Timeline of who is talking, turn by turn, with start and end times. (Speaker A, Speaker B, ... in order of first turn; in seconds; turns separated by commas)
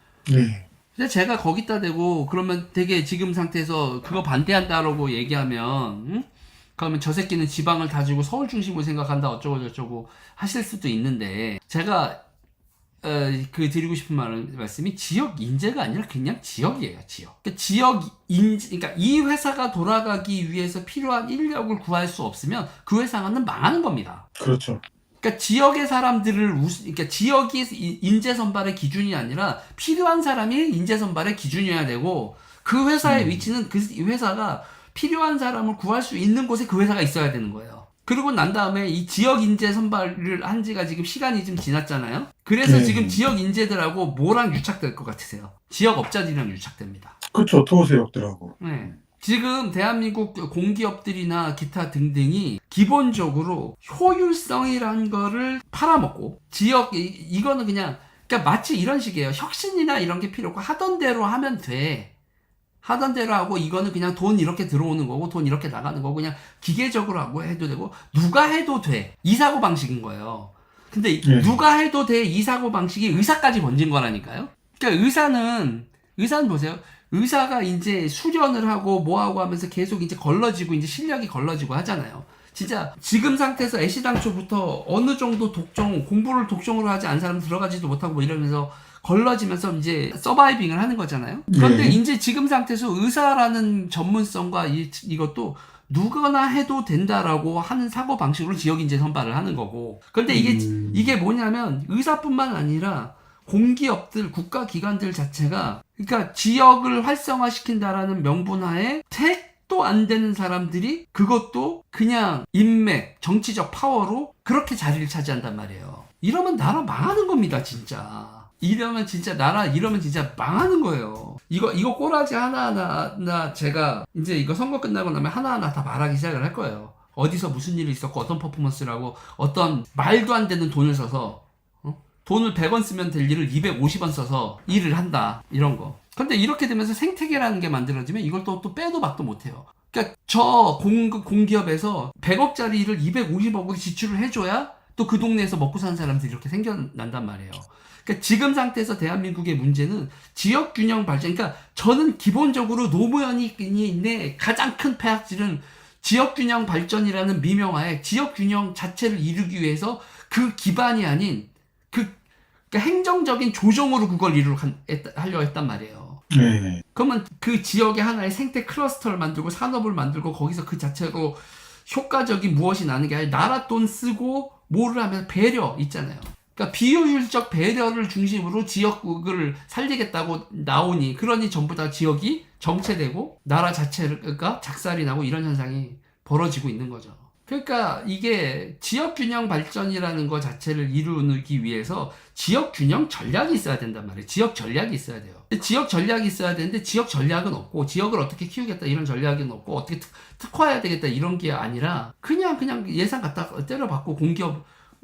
Speaker A: 0.3-0.6, Speaker B: 0.9-12.2, Speaker B: 13.0-24.2, Speaker A: 24.4-24.8, Speaker B: 25.2-47.2, Speaker A: 33.0-33.5, Speaker A: 42.6-43.2, Speaker A: 47.3-48.5, Speaker B: 48.6-62.1, Speaker B: 62.8-162.1, Speaker A: 71.2-71.5, Speaker A: 91.5-92.0, Speaker A: 100.3-101.1, Speaker B: 162.7-166.2, Speaker A: 166.3-166.8, Speaker B: 166.9-204.7